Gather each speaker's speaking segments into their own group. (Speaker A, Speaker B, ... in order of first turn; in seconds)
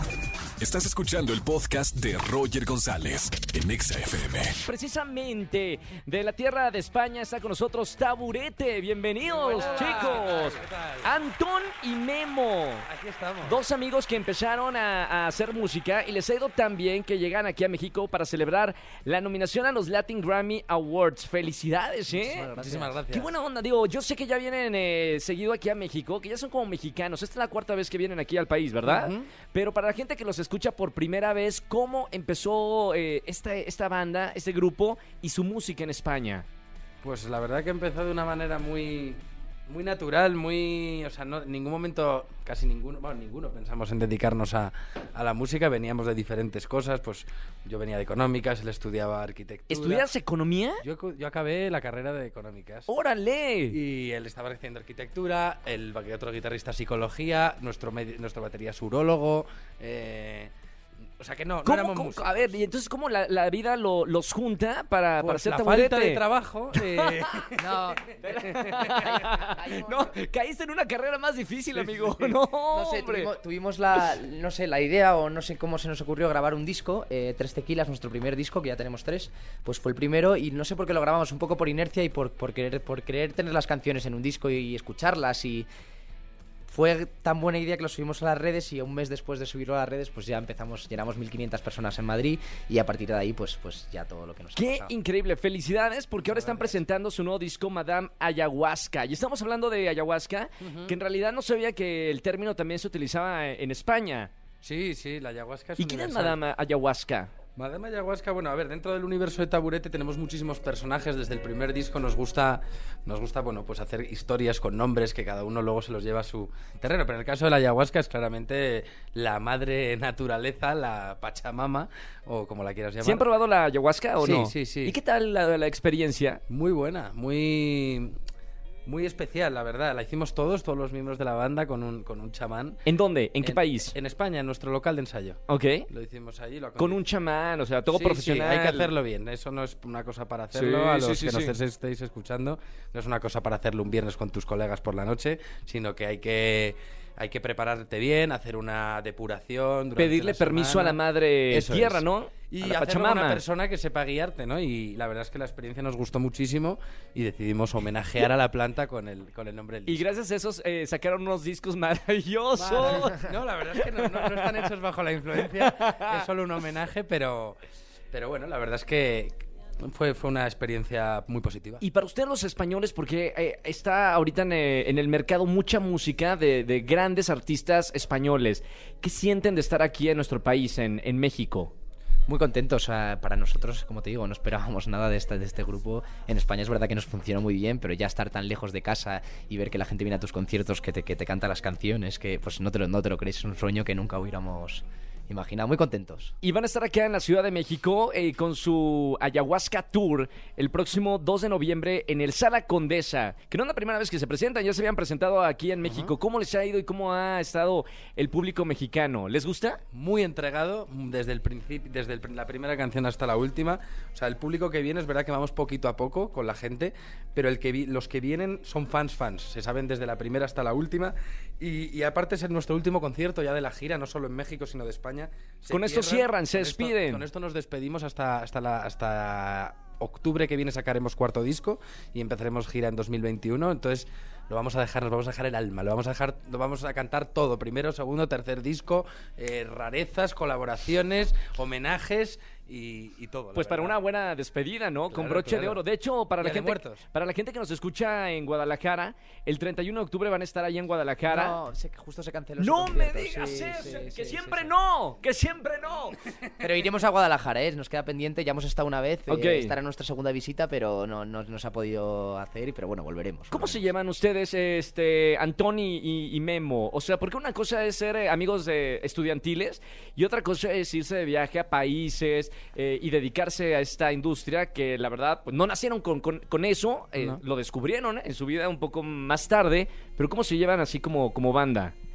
Speaker A: 0.6-4.5
Speaker B: 4.6-12.8, 13.4-22.5, 23.1-36.5, 49.7-50.8, 52.9-53.8, 61.6-66.2, 66.8-67.5, 68.2-73.3, 94.5-104.3, 105.8-107.3, 123.0-126.4, 132.8-133.9, 135.5-135.9, 136.8-138.9, 140.5-141.5, 149.9-153.4, 159.8-164.5, 165.6-166.1, 171.8-181.7, 196.4-209.8, 225.7-227.2, 243.5-251.6, 252.6-256.2, 259.3-259.7, 263.5-281.9
Speaker C: 9.3-11.1, 12.8-13.6, 22.6-23.3, 28.8-29.2, 37.0-50.1, 50.8-52.9, 53.7-60.5, 61.2-62.5, 65.2-69.2, 71.8-72.3, 96.2-96.8, 100.6-100.9, 104.6-106.4, 107.5-123.2, 124.2-125.0, 126.5-128.2, 128.8-132.8, 133.4-137.0, 137.9-160.1, 162.6-167.6, 168.1-171.8, 205.8-206.1, 209.9-243.9, 245.1-245.8, 246.4-247.0
Speaker D: 22.1-23.0, 67.6-68.1, 68.9-70.2, 72.7-85.7, 86.7-94.9, 182.3-196.3, 251.3-254.7, 256.6-263.9